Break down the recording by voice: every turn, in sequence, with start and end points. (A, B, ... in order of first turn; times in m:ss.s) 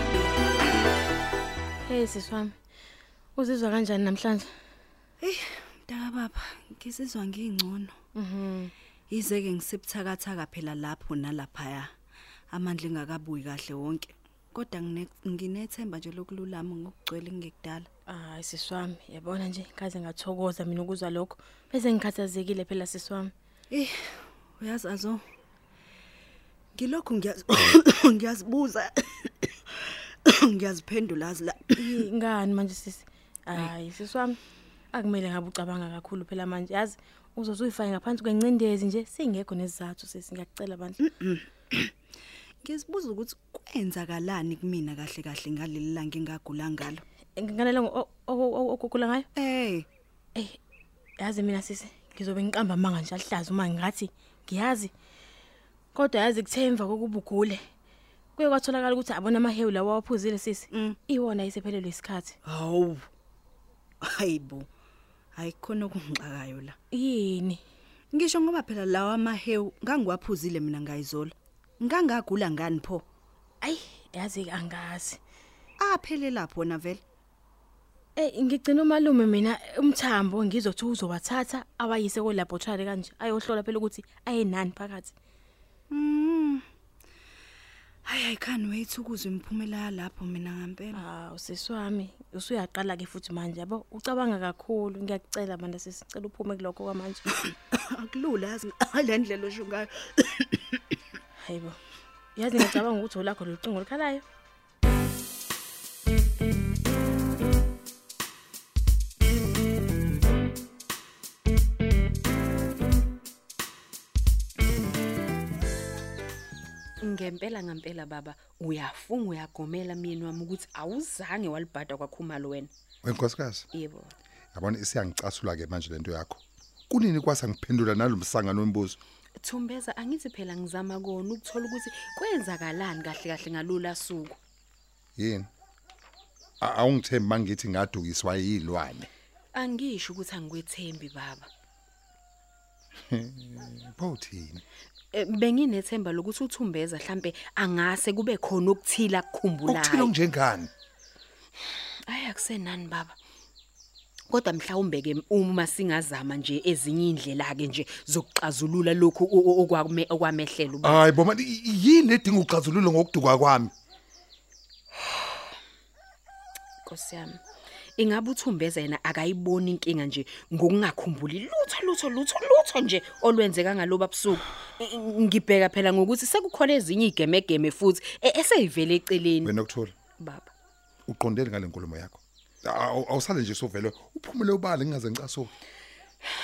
0:01.9-0:02.5 A
0:03.4-0:04.5 A
0:05.2-0:08.0 B
0:08.2-0:08.7 A
0:09.1-0:11.9 B
0:12.5-0:17.9 B
0:18.1-0:23.3 A
0:23.7-0:25.2 B
0:26.8-0:29.5 B
0:30.2-0:32.0 B
0:31.8-0:34.4 A
0:34.9-0:41.0 A
0:41.1-0:41.9 B
0:42.6-0:47.0 B
0:47.4-0:49.3 A
0:49.4-0:49.9 B
0:51.2-0:54.9 A
0:56.0-0:57.6 A
0:58.4-1:02.4 A
1:00.7-1:01.0 B
1:02.5-1:03.1 B
1:04.0-1:04.7 B
1:05.4-1:06.8 B
1:06.9-1:07.6 A
1:08.1-1:13.1 B
1:13.6-1:15.2 A
1:15.8-1:17.0 B
1:18.2-1:25.1 A
1:25.9-1:26.6 B
1:28.1-1:31.0 B
1:31.0-1:37.3 A
1:37.5-1:40.8 B
1:41.4-1:41.8 A
1:42.4-1:44.2 A
1:57.0-2:02.7 C
2:03.0-2:03.7 D
2:03.7-2:04.1 C
2:04.5-2:09.0 D
2:09.4-2:14.4 C
2:15.2-2:15.5 D
2:16.6-2:19.1 D
2:19.5-2:21.5 C
2:23.1-2:24.6 D
2:25.1-2:30.1 C
2:29.7-2:30.7 D
2:32.1-2:33.2 C
2:34.3-2:41.0 C
2:40.8-2:43.7 D
2:46.8-2:47.4 C
2:48.0-2:59.5 C
2:59.4-2:59.9 D
3:00.2-3:00.5 C
3:01.1-3:05.5 D